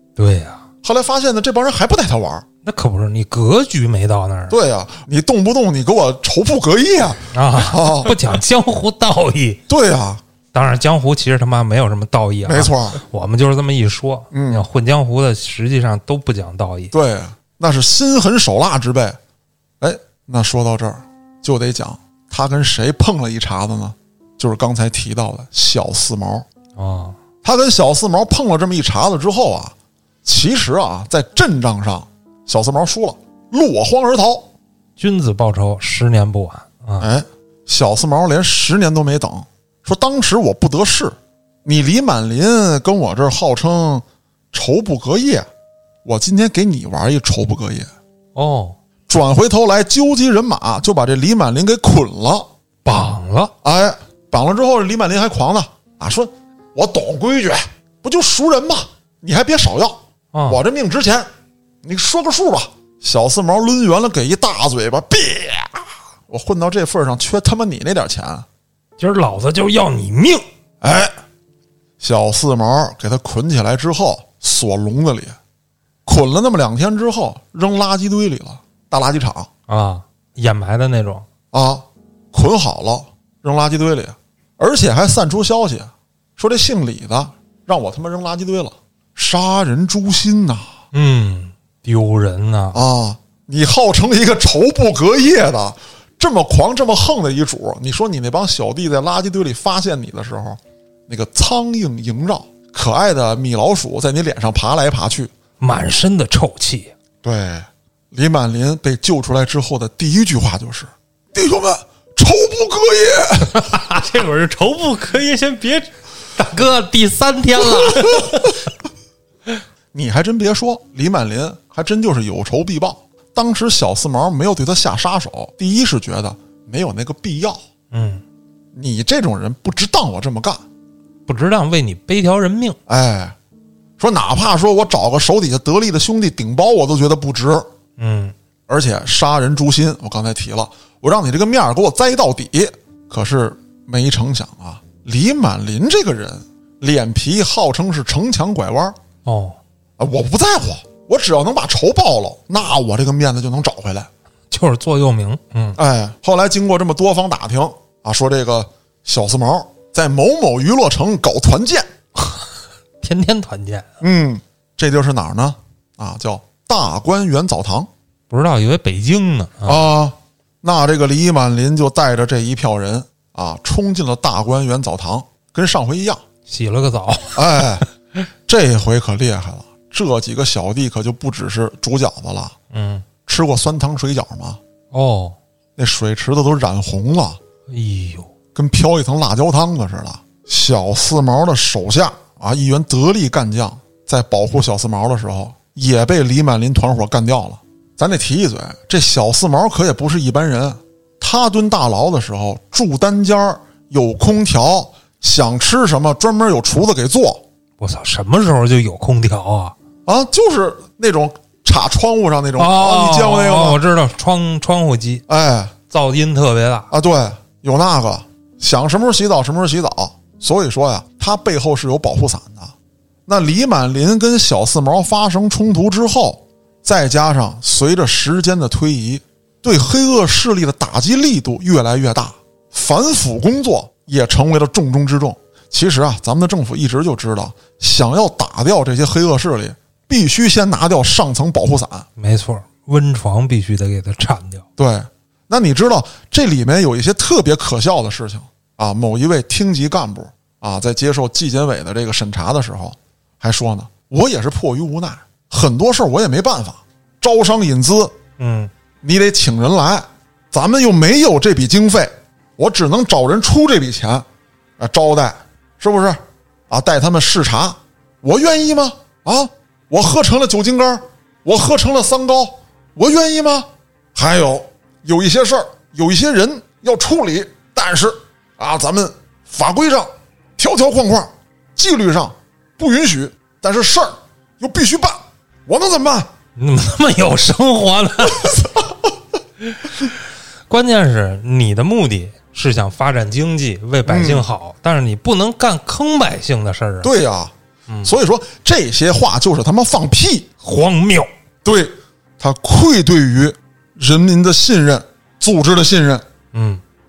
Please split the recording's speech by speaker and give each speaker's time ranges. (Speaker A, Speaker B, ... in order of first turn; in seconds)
Speaker A: 0.1-0.6, 2.6-4.6, 7.3-9.6, 10.5-16.9, 26.8-27.2, 35.0-37.1, 48.3-48.8, 52.8-53.5, 60.3-60.6, 69.0-70.4, 79.7-81.2, 90.9-92.8, 105.6-106.9, 113.5-113.9, 116.4-118.6, 127.9-128.2, 131.3-132.8, 138.0-138.3, 149.2-149.6, 154.5-155.8, 163.0-163.9, 168.3-169.8, 176.5-177.6, 182.7-183.1, 184.9-185.4, 187.7-188.3, 207.8-209.8, 212.6-215.2, 215.9-216.9, 242.2-244.6, 258.4-258.7, 286.6-288.7, 289.6-297.1, 297.9-298.1, 300.6-301.3, 306.5-306.8
Speaker B: 0.8-2.5, 4.5-8.2, 9.7-10.2, 12.4-13.0, 14.3-14.7, 16.9-19.2, 19.8-26.4, 27.4-34.5, 37.0-45.5, 46.0-47.9, 49.1-52.5, 53.6-61.3, 61.8-68.5, 70.8-71.1, 72.0-75.4, 76.0-79.5, 81.5-90.7, 92.7-105.3, 107.2-113.6, 119.9-127.6, 128.7-130.6, 132.9-133.3, 134.0-137.7, 138.7-148.9, 150.0-154.1, 155.8-161.9, 164.0-167.9, 169.6-176.2, 177.3-177.9, 178.5-182.6, 183.2-184.6, 185.8-187.4, 188.5-207.4, 210.1-213.8, 215.3-215.7, 216.9-222.7, 223.3-242.1, 244.8-258.2, 259.0-264.2, 264.8-286.3, 294.0-294.5, 297.0-300.5, 301.6-306.2
Speaker C: 113.9-115.9